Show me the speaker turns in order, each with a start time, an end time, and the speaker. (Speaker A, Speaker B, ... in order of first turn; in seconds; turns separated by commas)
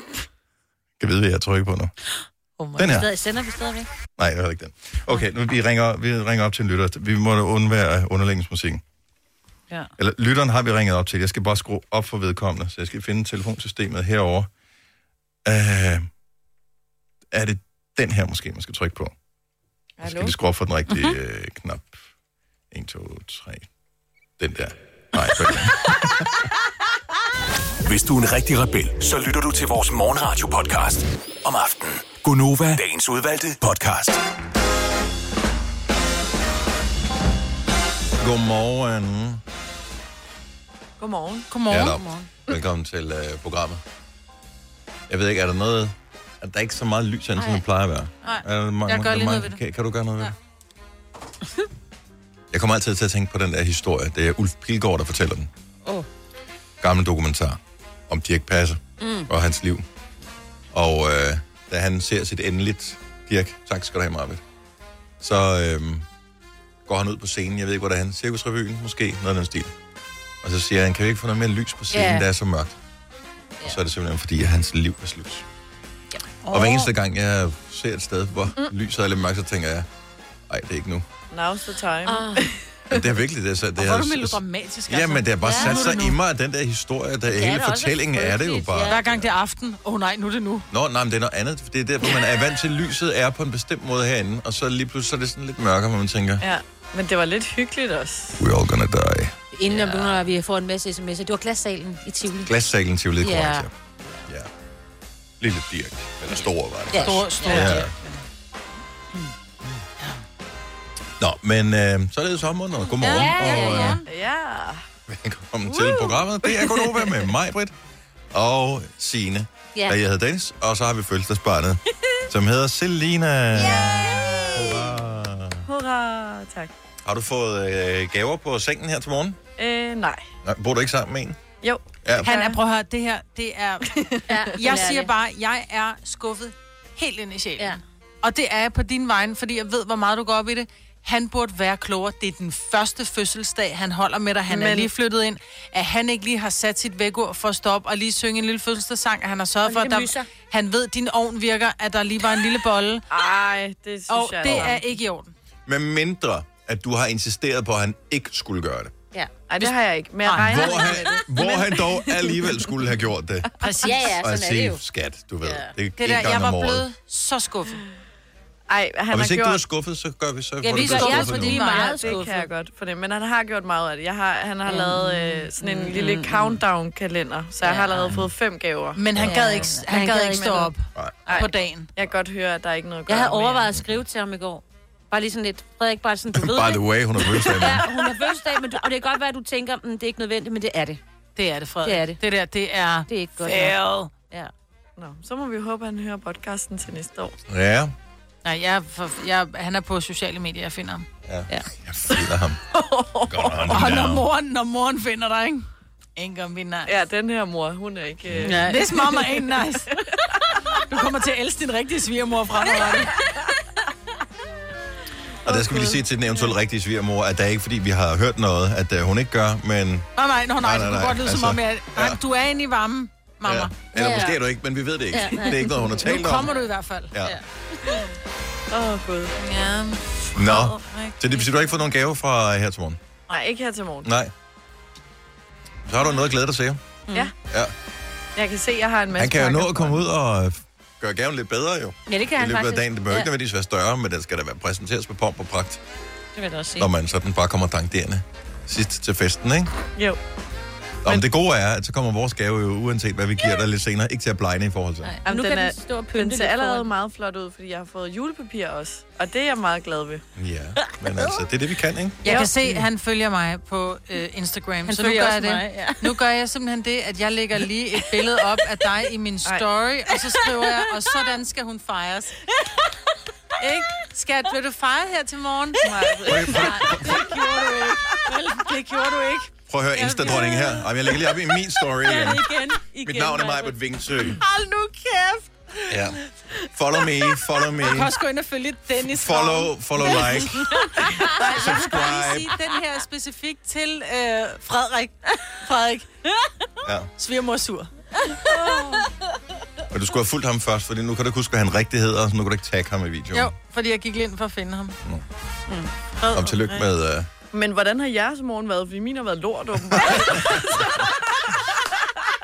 Speaker A: 1.0-1.9, Speaker B: 2.6-3.1, Speaker A: 2.8-3.1, Speaker C: 2.8-3.9, Speaker A: 4.2-8.8, Speaker A: 10.0-14.5, Speaker A: 15.4-16.1, Speaker A: 17.3-19.1, Speaker D: 20.0-20.3, Speaker A: 20.0-22.0, Speaker A: 22.7-23.7, Speaker A: 24.4-26.2, Speaker E: 27.8-34.2, Speaker A: 38.2-39.4, Speaker D: 41.0-41.5, Speaker B: 41.5-42.0, Speaker C: 41.6-42.3, Speaker A: 41.7-43.8, Speaker A: 45.1-50.3, Speaker C: 47.4-47.6, Speaker B: 48.2-49.6, Speaker A: 52.5-55.5, Speaker A: 56.8-59.8, Speaker C: 59.0-59.3, Speaker A: 60.7-64.4, Speaker A: 65.2-66.0, Speaker A: 66.9-69.7, Speaker A: 70.4-72.8, Speaker C: 71.9-72.2, Speaker A: 73.6-75.4, Speaker C: 76.4-76.9, Speaker A: 76.5-79.9, Speaker A: 80.5-81.0, Speaker D: 81.3-83.1, Speaker C: 82.0-82.4, Speaker A: 82.9-89.3, Speaker B: 83.8-86.2, Speaker C: 85.4-85.8, Speaker C: 87.3-89.0, Speaker B: 88.9-90.7, Speaker A: 90.7-96.5, Speaker D: 96.4-98.4, Speaker A: 98.4-100.2, Speaker C: 99.5-102.5, Speaker A: 102.4-103.7, Speaker C: 103.2-104.3, Speaker A: 105.4-107.9, Speaker C: 106.9-107.8, Speaker B: 107.0-108.2, Speaker A: 111.2-114.0, Speaker B: 113.0-114.0, Speaker C: 113.0-114.0, Speaker D: 114.0-114.8, Speaker A: 115.1-117.7, Speaker D: 116.4-117.2, Speaker A: 118.3-123.9, Speaker C: 123.5-124.6, Speaker D: 123.6-124.9, Speaker A: 124.5-125.7, Speaker D: 125.7-126.7, Speaker A: 127.0-129.4, Speaker D: 129.6-130.2, Speaker A: 130.4-131.4, Speaker D: 131.6-132.6, Speaker A: 132.0-132.3, Speaker B: 132.2-153.0, Speaker D: 133.9-134.9, Speaker C: 134.3-135.1, Speaker D: 144.5-144.9, Speaker C: 149.6-150.3, Speaker D: 153.1-154.8, Speaker B: 154.1-155.3, Speaker A: 155.7-158.9, Speaker D: 159.5-162.4, Speaker B: 159.6-160.8, Speaker A: 160.4-166.9, Speaker B: 163.6-164.1, Speaker C: 163.8-164.8, Speaker C: 165.4-165.7, Speaker B: 166.0-167.8, Speaker D: 168.7-169.6, Speaker A: 169.1-171.6, Speaker C: 170.6-172.5, Speaker B: 170.7-172.2, Speaker D: 171.6-179.0, Speaker C: 174.7-176.6, Speaker C: 177.6-178.2, Speaker B: 178.9-181.9, Speaker C: 179.2-180.7, Speaker D: 180.3-180.7, Speaker A: 180.9-181.3, Speaker D: 181.2-183.7, Speaker C: 183.1-191.0, Speaker A: 186.3-187.9, Speaker B: 191.4-194.1, Speaker C: 191.8-192.2, Speaker C: 193.1-194.5, Speaker D: 195.0-197.4, Speaker A: 197.5-197.9, Speaker B: 198.4-201.1, Speaker A: 201.2-202.6, Speaker D: 202.1-203.8, Speaker A: 203.3-204.3, Speaker B: 203.7-206.9, Speaker D: 206.9-208.7, Speaker A: 208.3-208.6, Speaker C: 208.4-209.1, Speaker B: 208.7-210.0, Speaker B: 210.8-213.2, Speaker A: 215.4-222.2, Speaker D: 215.4-216.0, Speaker B: 220.2-223.8, Speaker A: 223.4-226.5, Speaker C: 223.9-224.4, Speaker C: 225.1-226.1, Speaker B: 226.0-227.1, Speaker A: 227.1-227.4, Speaker D: 228.7-229.3, Speaker B: 229.4-231.5, Speaker A: 230.3-233.0, Speaker D: 233.3-234.1, Speaker A: 234.0-234.3, Speaker A: 235.8-236.8, Speaker D: 238.4-240.0, Speaker A: 239.2-245.8, Speaker C: 242.1-243.3, Speaker C: 246.3-246.9, Speaker A: 246.8-249.7, Speaker A: 251.0-255.1, Speaker C: 255.0-256.9, Speaker D: 255.2-260.2, Speaker A: 260.4-262.2, Speaker B: 262.2-272.4, Speaker D: 262.2-262.5, Speaker C: 262.3-262.8, Speaker C: 264.9-266.1, Speaker B: 273.6-275.9, Speaker D: 275.8-276.7, Speaker A: 276.2-277.2, Speaker B: 276.5-280.8, Speaker C: 276.5-277.4, Speaker A: 279.7-284.4, Speaker C: 280.3-280.8, Speaker C: 282.0-283.8, Speaker B: 284.4-285.4, Speaker A: 285.9-286.2, Speaker A: 286.7-288.1, Speaker B: 287.7-296.2, Speaker A: 289.0-292.6, Speaker A: 296.8-297.1, Speaker B: 297.2-297.9, Speaker D: 298.5-299.0, Speaker A: 299.9-303.5, Speaker B: 303.3-305.0, Speaker B: 306.2-306.8, Speaker A: 306.3-307.3, Speaker D: 307.5-311.2, Speaker A: 309.9-310.8